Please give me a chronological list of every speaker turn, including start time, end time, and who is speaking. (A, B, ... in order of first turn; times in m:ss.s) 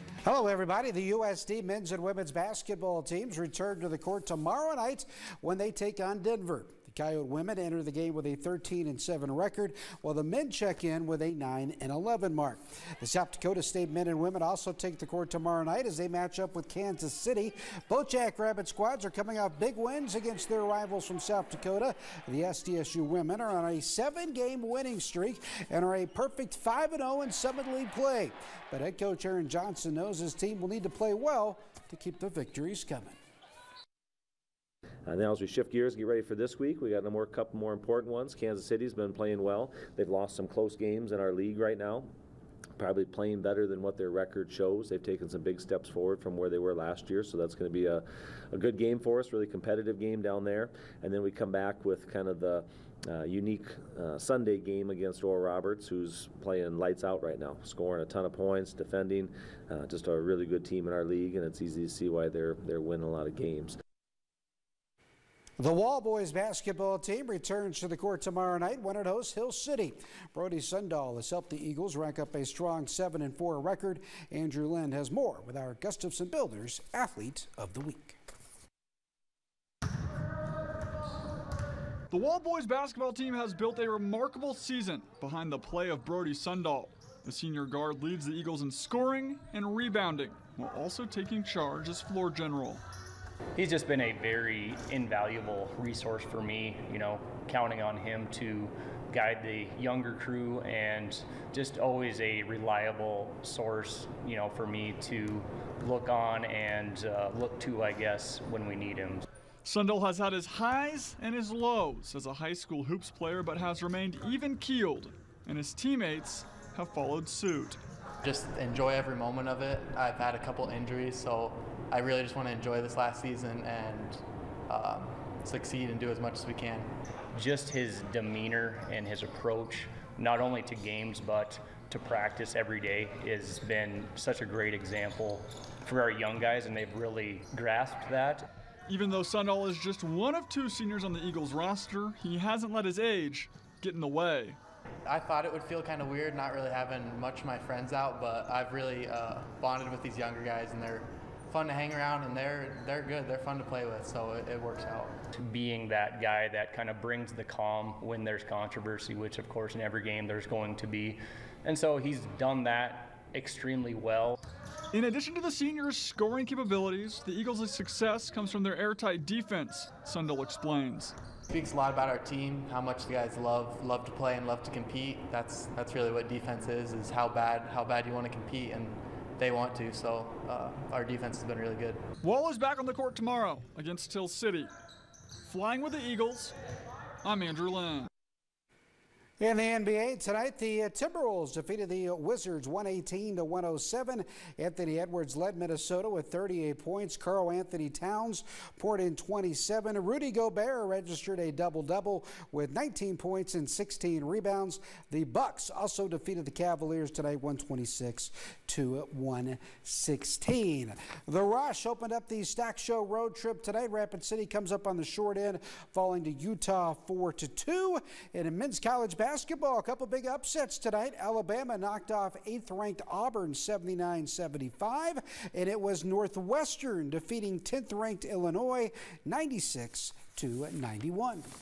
0:00.2-0:33.2 A
0:35.0-0:42.1 B
0:42.8-1:03.8 B
1:05.6-1:18.2 A
1:22.1-1:32.8 C
1:33.6-1:49.2 D
1:49.6-1:57.8 C
1:58.2-2:06.9 E
2:07.3-2:18.4 D
2:18.9-2:24.6 C
2:25.1-2:35.1 E
2:35.3-2:44.4 D
2:44.9-2:51.1 C
2:51.5-3:02.0 E
3:02.2-3:04.7 C
3:05.4-3:06.5 C
3:07.2-3:08.1 C
3:09.4-3:51.5 A